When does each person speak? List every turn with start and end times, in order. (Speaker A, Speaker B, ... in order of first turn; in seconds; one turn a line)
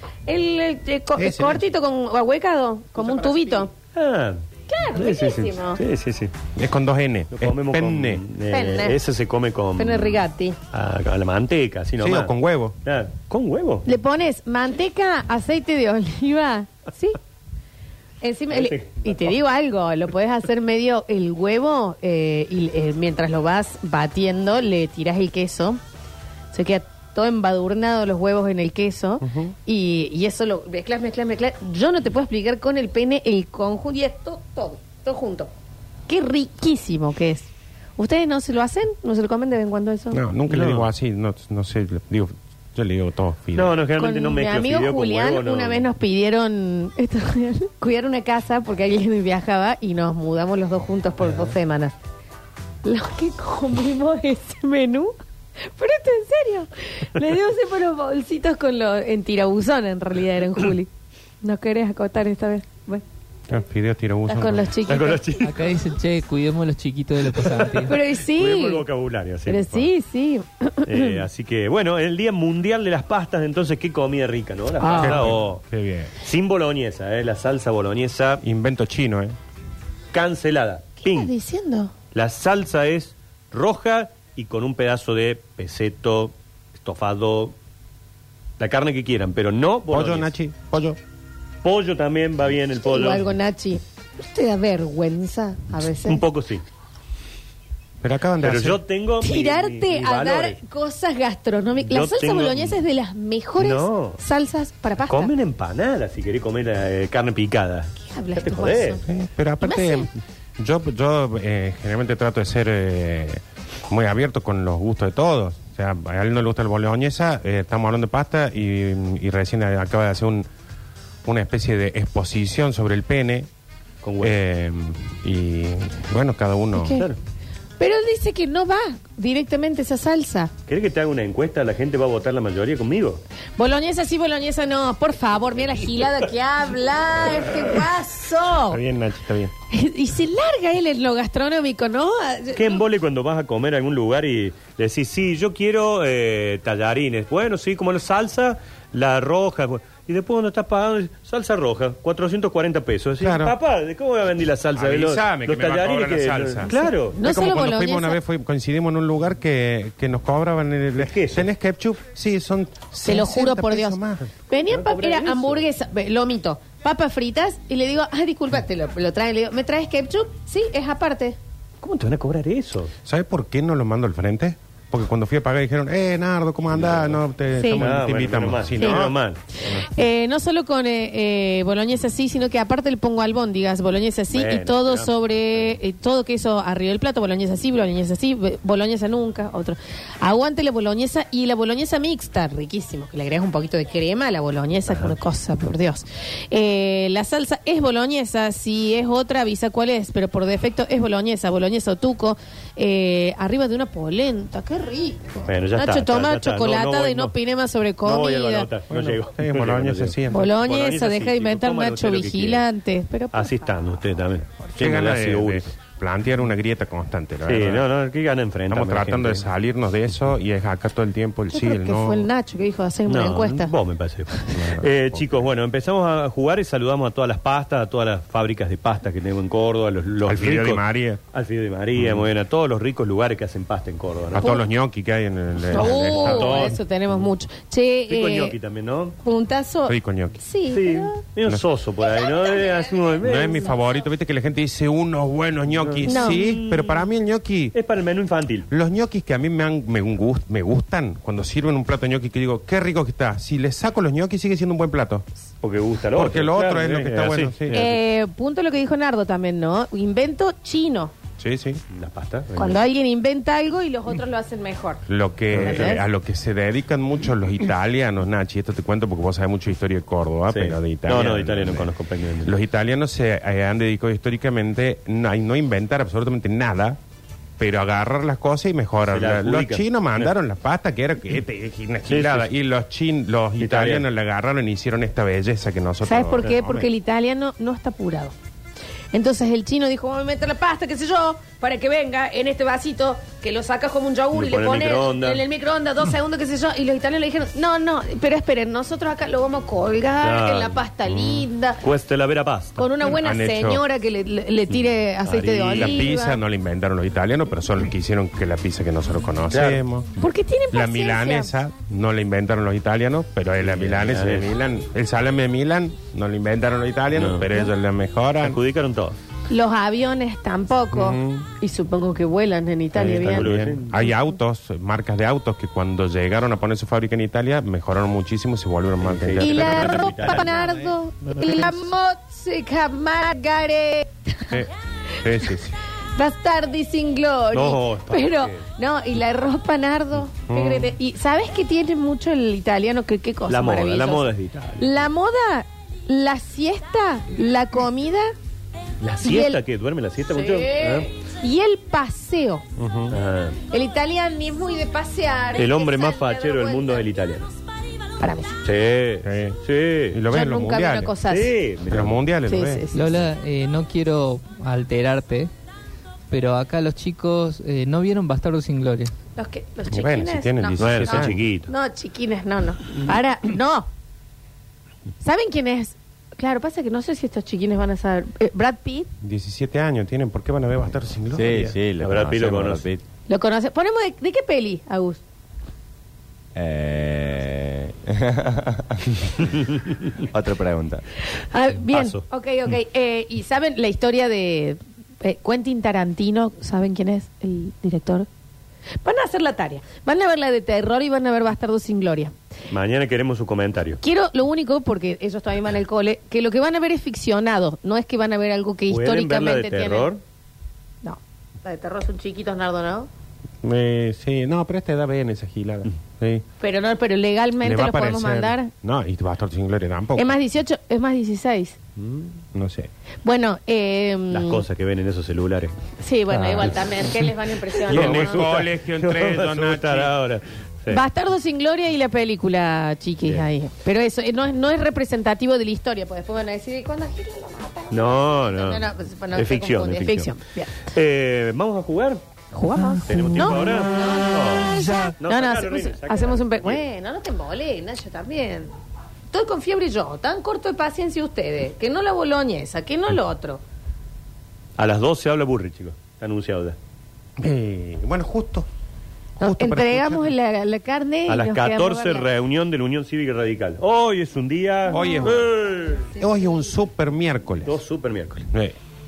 Speaker A: 0.3-3.7
Speaker B: 1.2-1.6
Speaker C: 3.0-4.4
Speaker A: 4.7-5.8
Speaker C: 5.0-6.3
Speaker B: 6.6-8.2
Speaker C: 7.3-10.2
Speaker A: 8.5-9.0
Speaker A: 9.8-10.6
Speaker C: 10.7-13.9
Speaker B: 12.0-12.8
Speaker A: 13.9-17.2
Speaker A: 18.2-25.8
Speaker C: 18.5-19.4
Speaker A: 26.5-35.5
Speaker B: 29.2-29.5
Speaker A: 36.1-40.2
Speaker B: 40.1-43.8
Speaker C: 40.5-40.9
Speaker C: 43.5-45.9
Speaker A: 44.0-52.0
Speaker A: 52.8-55.1
Speaker A: 55.7-60.9
Speaker A: 61.4-63.0
Speaker B: 63.5-64.7
Speaker A: 64.3-65.2
Speaker C: 64.9-65.6
Speaker D: 65.4-67.9
Speaker C: 67.3-69.9
Speaker A: 67.8-68.8
Speaker A: 69.5-71.2
Speaker C: 70.8-75.6
Speaker A: 74.8-75.2
Speaker B: 74.9-76.1
Speaker C: 76.2-78.4
Speaker B: 78.4-79.3
Speaker C: 80.1-81.3
Speaker A: 81.0-81.9
Speaker C: 82.1-87.5
Speaker C: 88.6-90.3
Speaker B: 89.9-91.0
Speaker C: 91.6-93.3
Speaker A: 92.8-96.2
Speaker C: 96.0-96.7
Speaker B: 98.0-98.8
Speaker C: 98.4-100.6
Speaker A: 99.2-105.3
Speaker C: 101.8-102.8
Speaker C: 103.6-104.2
Speaker C: 105.1-109.0
Speaker A: 108.0-109.0
Speaker B: 109.0-120.5
Speaker A: 109.6-110.1
Speaker B: 121.2-123.5
Speaker C: 124.0-124.4
Speaker B: 124.2-127.0
Speaker A: 126.8-127.1
Speaker A: 127.8-130.5
Speaker C: 130.7-133.2
Speaker A: 133.6-138.8
Speaker B: 138.7-139.5
Speaker A: 139.7-142.8
Speaker C: 142.6-157.2
Speaker B: 153.2-153.6
Speaker B: 154.8-164.3
Speaker A: 156.7-158.2
Speaker C: 161.0-161.5
Speaker A: 163.1-171.4
Speaker C: 164.7-165.6
Speaker C: 171.8-172.9
Speaker B: 173.1-179.9
Speaker C: 176.7-177.2
Speaker A: 177.6-177.9
Speaker C: 177.7-179.4
Speaker A: 178.8-179.1
Speaker A: 179.6-208.7
Speaker C: 184.3-185.8
Speaker C: 194.9-195.2
Speaker C: 205.5-207.4
Speaker C: 208.0-212.6
Speaker B: 208.9-210.5
Speaker A: 210.3-213.6
Speaker C: 213.3-215.6
Speaker B: 214.8-217.9
Speaker C: 217.4-219.4
Speaker B: 218.7-222.3
Speaker A: 221.5-223.7
Speaker C: 223.1-234.5
Speaker B: 224.5-225.5
Speaker B: 230.3-231.2
Speaker B: 232.0-232.3
Speaker B: 234.3-236.8
Speaker A: 234.4-234.7
Speaker C: 235.7-236.8
Speaker A: 235.7-238.6
Speaker C: 238.1-239.2
Speaker A: 239.2-241.2
Speaker B: 239.9-240.4
Speaker C: 240.7-243.7
Speaker A: 242.2-242.5
Speaker B: 243.2-247.8
Speaker C: 245.7-247.1
Speaker A: 246.1-246.4
Speaker C: 247.7-248.7
Speaker B: 248.7-255.3
Speaker C: 255.6-257.9
Speaker B: 256.1-257.9
Speaker A: 257.7-261.1
Speaker B: 261.4-261.8
Speaker C: 261.9-262.8
Speaker A: 262.6-266.0
Speaker B: 265.1-271.9
Speaker C: 265.6-265.9
Speaker C: 270.5-272.5
Speaker B: 272.4-277.0
Speaker B: 277.6-286.9
Speaker C: 279.1-280.3
Speaker C: 282.1-282.5
Speaker C: 283.6-284.1
Speaker A: 286.0-288.4
Speaker C: 286.4-286.8
Speaker A: 289.1-301.8
Speaker C: 294.3-295.4
Speaker C: 300.2-302.9
Speaker A: 302.8-306.4
Speaker B: 303.0-303.8
Speaker C: 304.7-306.1
Speaker B: 305.8-310.2
Speaker C: 309.5-309.8
Speaker A: 310.2-311.5
Speaker B: 310.7-318.6
Speaker C: 313.6-314.5
Speaker C: 317.1-317.6
Speaker C: 318.4-319.2
Speaker A: 319.5-323.5
Speaker B: 320.9-321.5
Speaker B: 322.9-330.9
Speaker C: 323.1-324.0
Speaker C: 329.0-330.6
Speaker A: 329.4-334.6
Speaker C: 331.3-331.7
Speaker B: 335.2-335.8
Speaker A: 336.1-348.3
Speaker C: 337.5-338.6
Speaker B: 340.5-340.9
Speaker C: 343.5-345.1
Speaker C: 349.0-351.1
Speaker A: 349.2-349.6
Speaker A: 350.3-352.6
Speaker B: 352.8-353.2
Speaker C: 353.1-353.6
Speaker A: 353.7-357.0
Speaker C: 355.6-357.5
Speaker A: 358.2-358.6
Speaker C: 358.6-360.2
Speaker B: 359.2-359.6
Speaker B: 360.1-361.1
Speaker A: 360.3-361.5
Speaker C: 361.3-362.2
Speaker B: 361.9-362.8
Speaker A: 362.5-363.0
Speaker D: 362.9-365.5
Speaker D: 366.3-369.1
Speaker A: 369.4-373.9
Speaker B: 369.9-371.4
Speaker C: 370.8-371.7
Speaker A: 375.2-379.1
Speaker B: 379.2-381.8
Speaker E: 381.3-383.0
Speaker C: 382.0-382.9
Speaker A: 383.3-385.2
Speaker E: 386.6-389.1
Speaker E: 390.3-391.1
Speaker A: 391.4-398.3
Speaker C: 391.9-392.2
Speaker A: 399.0-402.3
Speaker C: 402.7-404.0
Speaker A: 404.0-410.1
Speaker C: 408.9-410.2
Speaker A: 411.0-413.1
Speaker B: 413.6-416.4
Speaker A: 416.6-418.7
Speaker B: 417.6-420.4
Speaker A: 420.2-421.8
Speaker C: 422.0-422.3
Speaker B: 422.5-422.9
Speaker A: 423.2-424.6
Speaker C: 424.3-425.8
Speaker A: 426.0-428.5
Speaker C: 427.8-431.0
Speaker B: 427.9-430.1
Speaker A: 430.9-440.8
Speaker C: 437.9-440.3
Speaker C: 440.9-442.2
Speaker A: 442.5-448.7
Speaker C: 443.1-446.8
Speaker A: 449.3-453.6
Speaker C: 454.8-456.8
Speaker B: 457.4-458.7
Speaker B: 459.4-460.3
Speaker A: 459.4-462.3
Speaker C: 461.3-466.1
Speaker B: 464.9-465.5
Speaker B: 466.2-467.8
Speaker C: 467.6-468.5